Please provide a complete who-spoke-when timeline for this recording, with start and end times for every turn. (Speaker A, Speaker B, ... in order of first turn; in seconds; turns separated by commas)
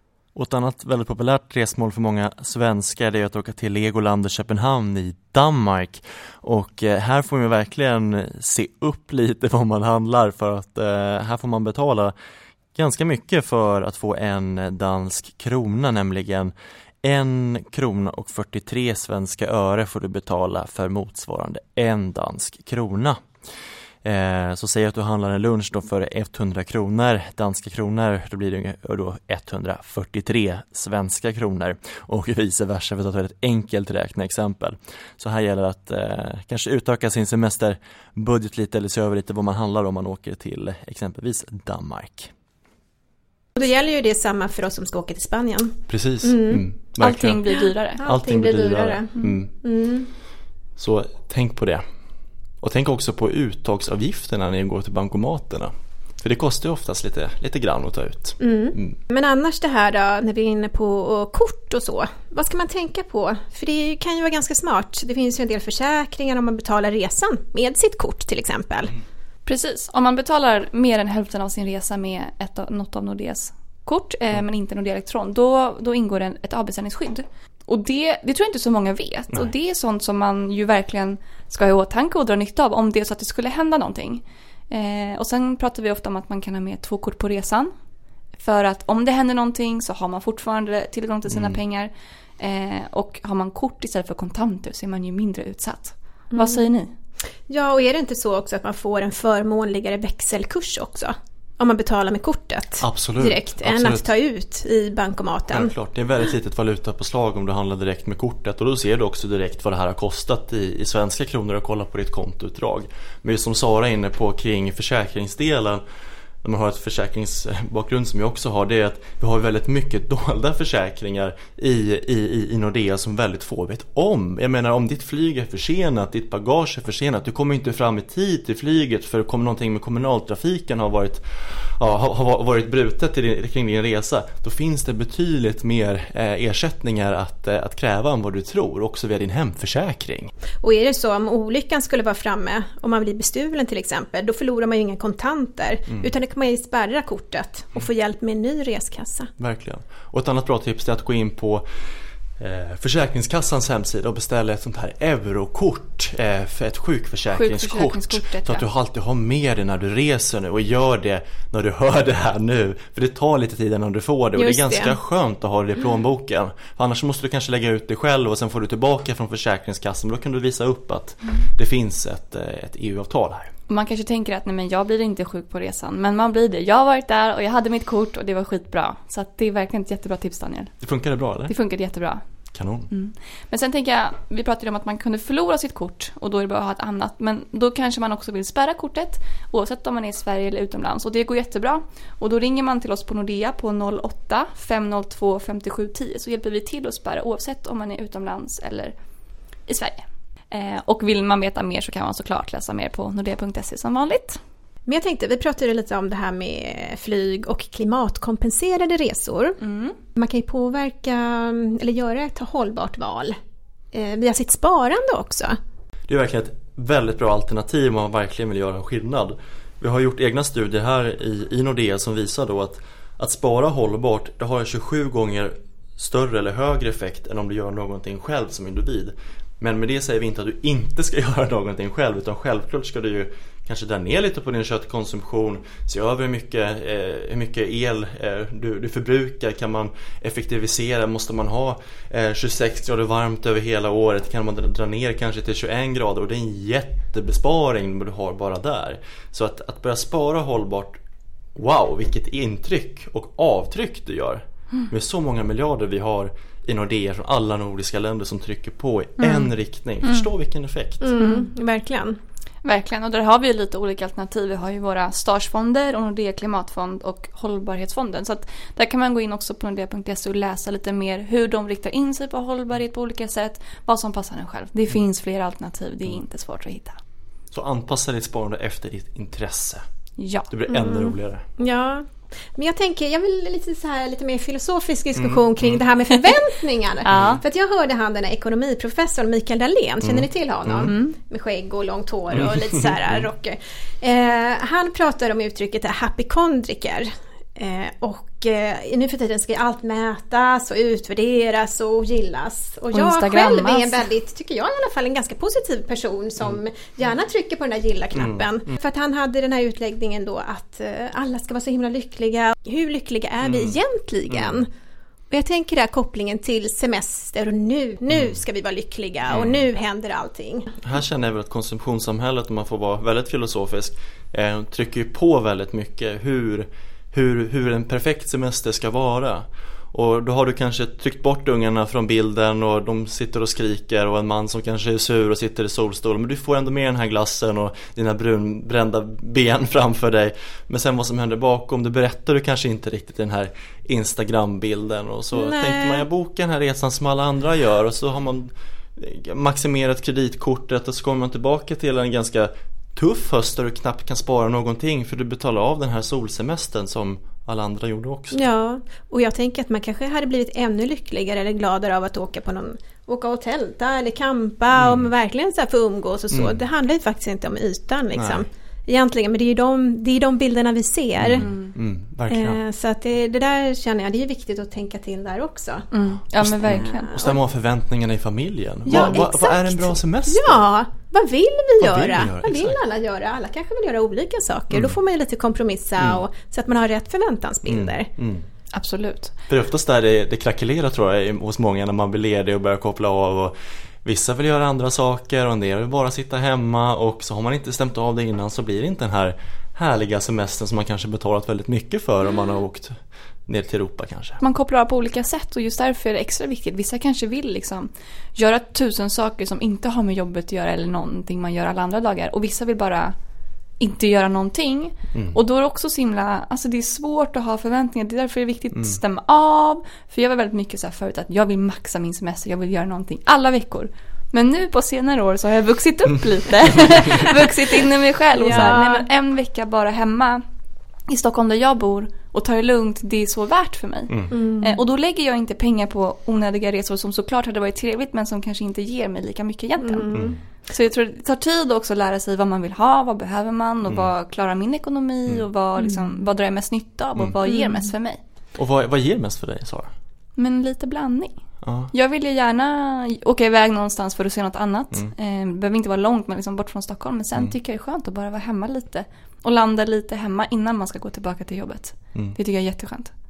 Speaker A: 0.3-12.1, Speaker A: 12.7-23.3, Speaker A: 24.0-42.3, Speaker B: 43.6-46.6, Speaker A: 45.9-47.4, Speaker C: 47.0-48.0, Speaker B: 47.5-50.1, Speaker A: 48.0-49.5, Speaker A: 50.8-51.8, Speaker A: 52.6-59.0, Speaker B: 58.4-68.9, Speaker C: 69.5-87.7, Speaker C: 88.4-96.9, Speaker A: 91.3-91.6, Speaker B: 96.3-96.7, Speaker B: 97.5-105.7, Speaker A: 102.8-104.1, Speaker A: 105.5-115.8, Speaker A: 116.4-140.3, Speaker B: 140.6-149.3, Speaker A: 149.4-151.6, Speaker A: 152.4-173.5, Speaker C: 157.3-158.6, Speaker B: 164.3-164.9, Speaker C: 173.7-180.8, Speaker A: 180.8-181.5, Speaker C: 181.5-182.2, Speaker A: 182.5-182.9, Speaker C: 182.9-198.9, Speaker C: 199.7-204.4, Speaker B: 204.9-209.6, Speaker C: 209.6-210.0, Speaker B: 210.2-213.3, Speaker B: 213.9-215.6, Speaker A: 216.1-251.0, Speaker A: 251.6-261.1, Speaker C: 259.2-259.5, Speaker B: 261.0-262.2, Speaker C: 261.2-261.5, Speaker C: 262.6-277.0, Speaker A: 277.5-279.8, Speaker C: 280.2-280.5, Speaker A: 280.5-281.5, Speaker B: 280.7-314.7, Speaker A: 285.2-285.9, Speaker C: 287.0-287.4, Speaker A: 287.1-287.4, Speaker A: 290.0-290.9, Speaker C: 290.9-291.2, Speaker A: 292.3-293.3, Speaker C: 302.9-304.1, Speaker A: 308.1-308.7, Speaker A: 313.4-313.8, Speaker A: 314.3-314.6, Speaker B: 315.3-320.8, Speaker A: 318.1-318.4, Speaker A: 319.3-319.6, Speaker A: 320.8-358.4, Speaker B: 345.3-346.1, Speaker B: 358.3-371.5, Speaker A: 364.7-365.1, Speaker A: 366.3-366.6, Speaker A: 368.1-368.4, Speaker A: 371.2-372.6, Speaker C: 371.4-371.7, Speaker B: 372.3-375.9, Speaker C: 375.9-377.2, Speaker A: 376.4-380.7, Speaker B: 376.7-377.4, Speaker B: 378.9-388.1, Speaker A: 381.8-382.8, Speaker A: 387.7-388.4, Speaker C: 388.7-389.3, Speaker A: 389.5-404.4, Speaker C: 404.4-413.1, Speaker C: 413.8-430.4, Speaker A: 415.1-415.4, Speaker A: 418.7-419.0, Speaker B: 428.3-429.1, Speaker C: 431.1-448.2, Speaker A: 434.1-434.4, Speaker B: 434.3-434.8, Speaker B: 439.8-440.4, Speaker A: 440.1-440.4, Speaker A: 443.9-444.1, Speaker B: 447.4-447.9, Speaker A: 448.6-449.9, Speaker C: 450.4-451.4, Speaker A: 451.6-451.9, Speaker C: 451.9-463.1